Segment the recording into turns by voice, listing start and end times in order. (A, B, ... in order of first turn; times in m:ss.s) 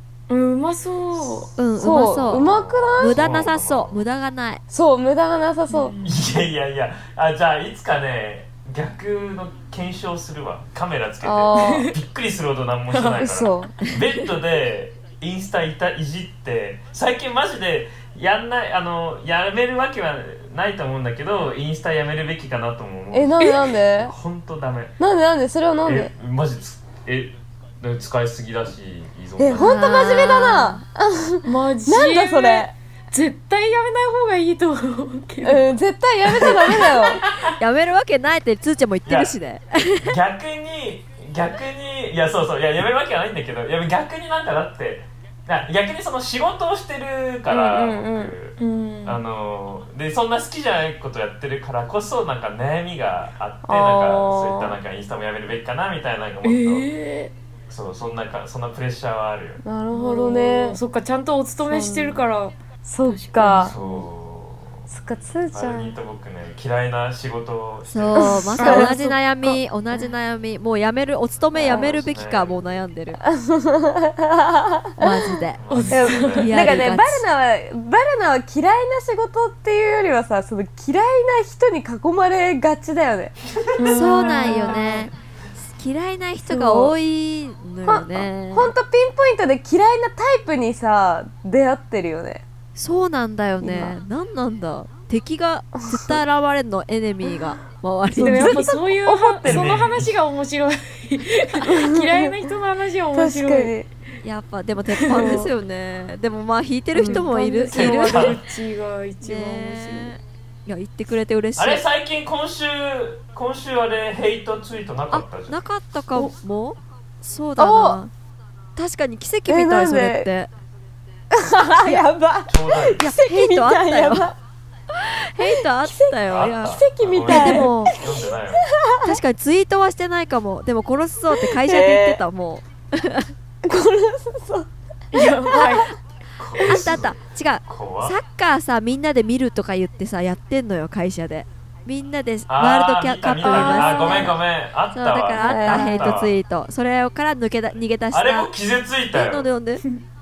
0:00.3-0:01.5 A
0:01.2-0:01.5 B
0:01.6-0:04.6 C
0:01.8-0:03.2 D
0:02.2-0:04.0 B
0:04.7-0:06.0 D
0:05.7-0:06.1 A
0:06.0-0:24.9 B
0:11.2-0:11.9 D
0:11.6-0:11.9 A
0:12.9-0:13.3 A
0:13.2-0:13.7 D
0:23.1-0:24.1 D
0:25.0-0:26.1 D
0:25.8-0:29.9 B
0:29.4-0:32.7 D
0:29.6-0:30.8 C
0:31.4-0:35.7 A
0:35.4-0:37.2 D
0:36.4-0:37.5 B
0:37.6-0:40.1 C
0:39.0-0:39.3 B
0:40.0-0:56.9 B
0:47.5-0:48.3 D
0:48.6-0:49.2 A
0:53.6-0:54.8 D
0:56.4-0:57.3 A
0:57.7-0:59.6 B
0:59.6-1:00.8 D
0:59.9-1:03.8 A
1:01.6-1:02.2 D
1:02.8-1:04.0 D
1:03.6-1:04.9 B
1:04.9-1:05.9 D
1:05.5-1:08.4 B
1:07.9-1:13.2 C
1:08.2-1:09.0 D
1:08.6-1:09.2 A
1:11.5-1:12.8 B
1:11.6-1:12.0 D
1:13.2-1:15.3 D
1:15.0-1:15.6 C
1:15.6-1:16.8 B
1:15.7-1:16.5 A
1:15.9-1:23.3 D
1:16.4-1:17.2 C
1:23.4-1:24.7 B
1:23.8-1:25.1 A
1:23.9-1:28.7 C
1:26.5-1:26.9 D
1:27.8-1:32.4 D
1:32.8-1:38.7 C
1:33.6-1:34.0 D
1:35.8-1:36.2 D
1:38.2-1:39.6 D
1:38.2-1:43.7 A
1:39.4-1:40.2 B
1:41.6-1:42.3 D
1:43.1-1:43.9 D
1:44.2-1:48.4 C
1:45.0-1:45.5 A
1:45.1-1:45.5 D
1:46.9-1:50.1 A
1:47.0-1:47.2 D
1:47.7-1:48.4 B
1:49.2-1:51.8 C
1:51.6-1:55.6 B
1:55.1-1:58.1 C
1:57.6-1:58.0 D
1:58.8-2:00.5 C
1:59.5-2:00.3 D
2:01.3-2:04.4 D
2:02.5-2:03.1 B
2:03.0-2:04.3 C
2:05.3-2:07.9 C
2:05.4-2:09.2 D
2:06.3-2:08.7 B
2:09.0-2:13.3 C
2:11.3-2:12.2 D
2:13.6-2:15.9 D
2:15.1-2:15.9 A
2:16.4-2:18.2 B
2:16.6-2:24.4 C
2:22.5-2:26.4 B
2:23.4-2:24.3 A
2:23.9-2:24.2 D
2:24.9-2:28.5 C
2:25.4-2:26.2 D
2:28.1-2:29.5 B
2:29.1-2:29.8 C